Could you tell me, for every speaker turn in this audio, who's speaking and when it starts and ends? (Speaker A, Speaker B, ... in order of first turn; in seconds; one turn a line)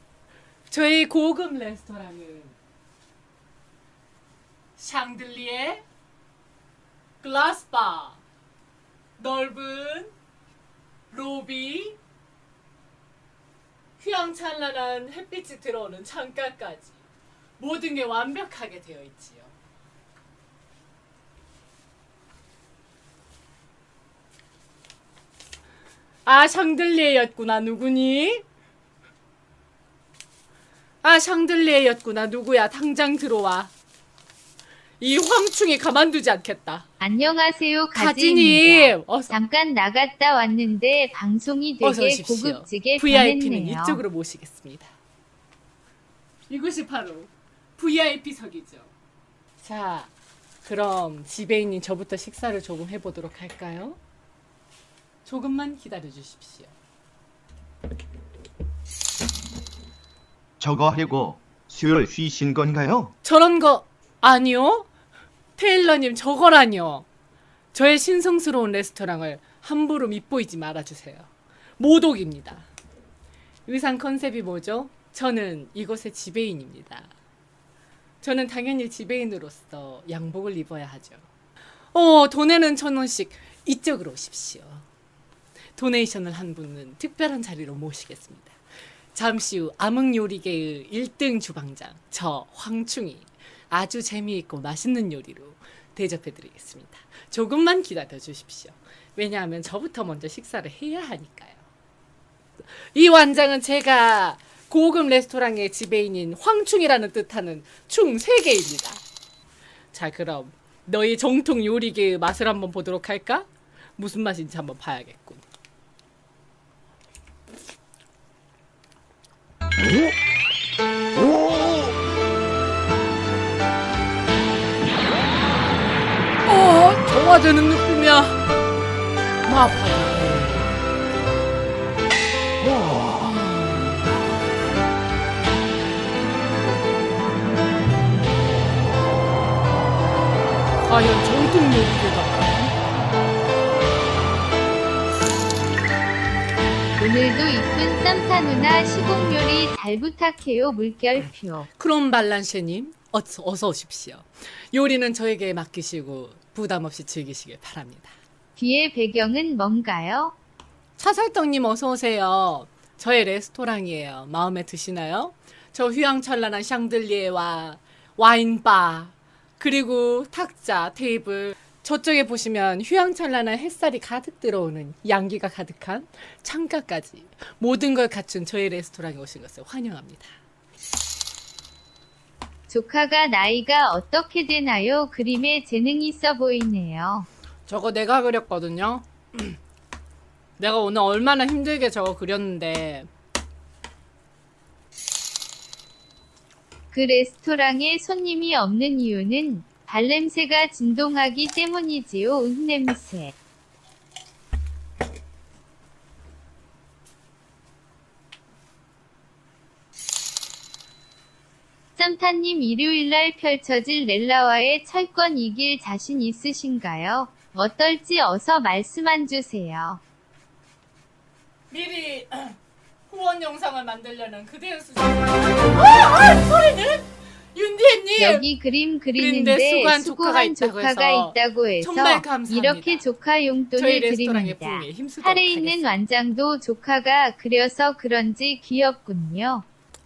Speaker A: 0.7-2.5
Speaker A: 4.8-5.8
Speaker A: 7.2-8.2
Speaker A: 9.2-10.1
Speaker A: 11.1-12.0
Speaker A: 14.0-17.0
Speaker A: 17.6-19.5
Speaker A: 26.2-28.4
Speaker A: 31.0-33.7
Speaker A: 35.0-36.9
Speaker B: 37.0-44.0
Speaker A: 37.9-39.3
Speaker A: 41.8-44.9
Speaker A: 46.5-48.9
Speaker A: 49.6-50.1
Speaker A: 50.6-54.0
Speaker A: 55.2-56.7
Speaker C: 60.6-63.1
Speaker A: 63.2-64.9
Speaker A: 65.6-67.0
Speaker A: 67.7-71.3
Speaker A: 71.8-72.7
Speaker A: 73.7-77.1
Speaker A: 78.2-81.2
Speaker A: 81.9-84.8
Speaker A: 85.8-88.5
Speaker A: 89.1-101.6
Speaker A: 102.8-109.0
Speaker A: 109.9-115.4
Speaker A: 126.4-128.4
Speaker A: 129.4-130.7
Speaker A: 140.9-142.7
Speaker B: 147.0-151.7
Speaker A: 151.8-158.1
Speaker B: 158.6-160.3
Speaker A: 161.0-180.3
Speaker B: 182.7-187.3
Speaker A: 187.7-189.6
Speaker A: 190.6-193.1
Speaker B: 196.9-203.3
Speaker B: 211.9-220.0
Speaker A: 221.7-222.6
Speaker A: 223.1-228.4
Speaker B: 228.2-239.7
Speaker A: 229.2-233.1
Speaker A: 233.8-235.9